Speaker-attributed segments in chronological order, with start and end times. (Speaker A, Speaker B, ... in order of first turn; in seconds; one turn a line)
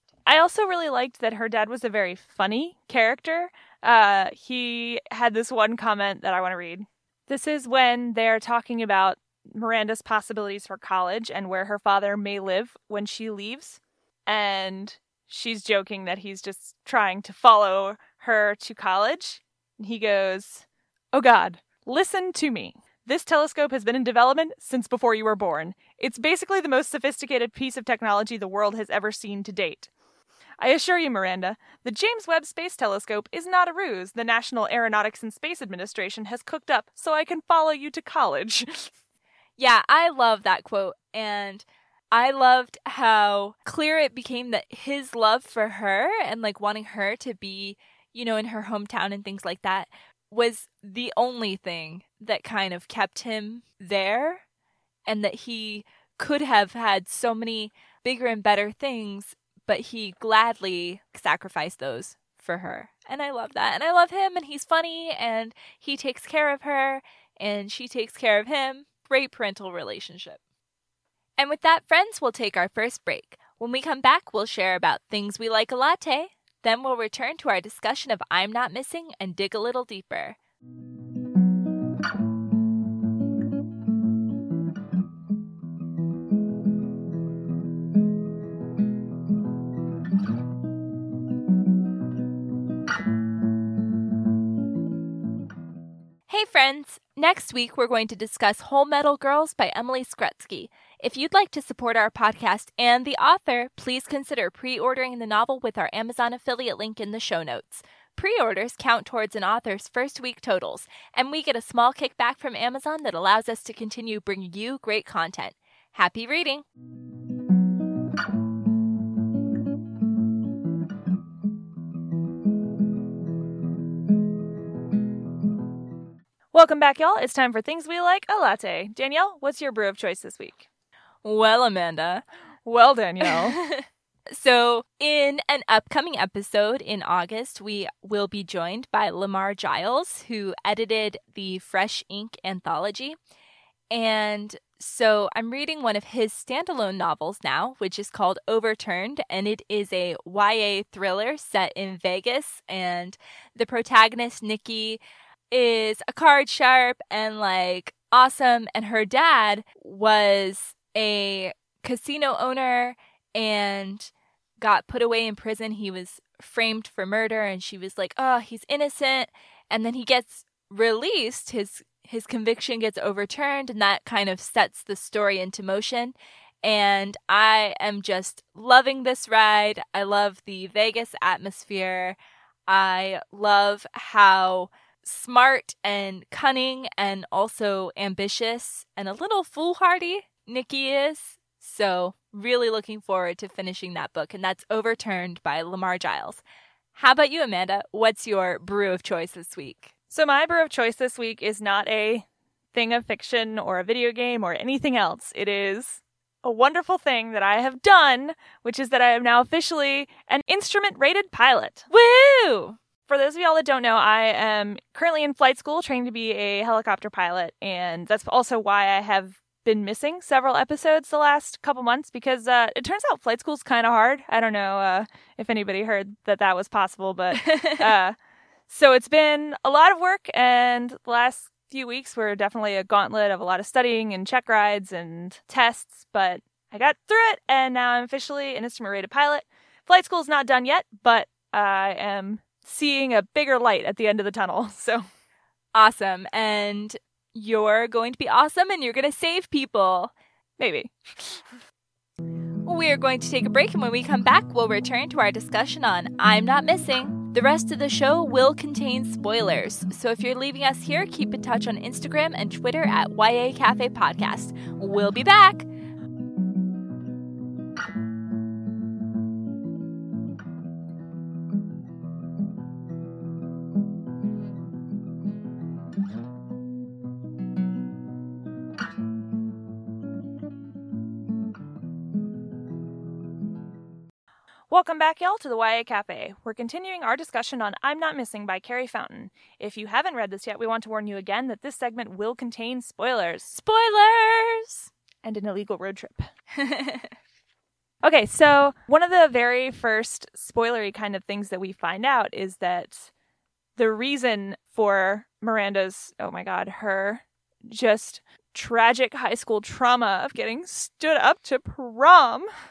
Speaker A: 0.3-29.9
Speaker A: 30.6-38.9
Speaker B: 39.6-54.4
Speaker B: 55.1-70.4
Speaker B: 71.4-80.4
Speaker B: 96.3-116.7
Speaker A: 126.5-130.7
Speaker B: 131.2-132.2
Speaker A: 132.7-133.6
Speaker B: 133.2-143.2
Speaker B: 143.9-155.0
Speaker B: 155.5-182.2
Speaker B: 182.7-196.4
Speaker B: 196.9-199.9
Speaker A: 200.1-211.9
Speaker B: 211.9-212.8
Speaker A: 213.1-228.2
Speaker B: 227.3-227.9
Speaker A: 228.7-245.0
Speaker B: 245.8-250.1
Speaker A: 250.6-251.6
Speaker B: 252.7-265.7
Speaker A: 284.7-293.5
Speaker B: 293.5-294.9
Speaker A: 295.2-296.3
Speaker B: 296.6-297.1
Speaker A: 298.0-303.1
Speaker A: 303.8-312.5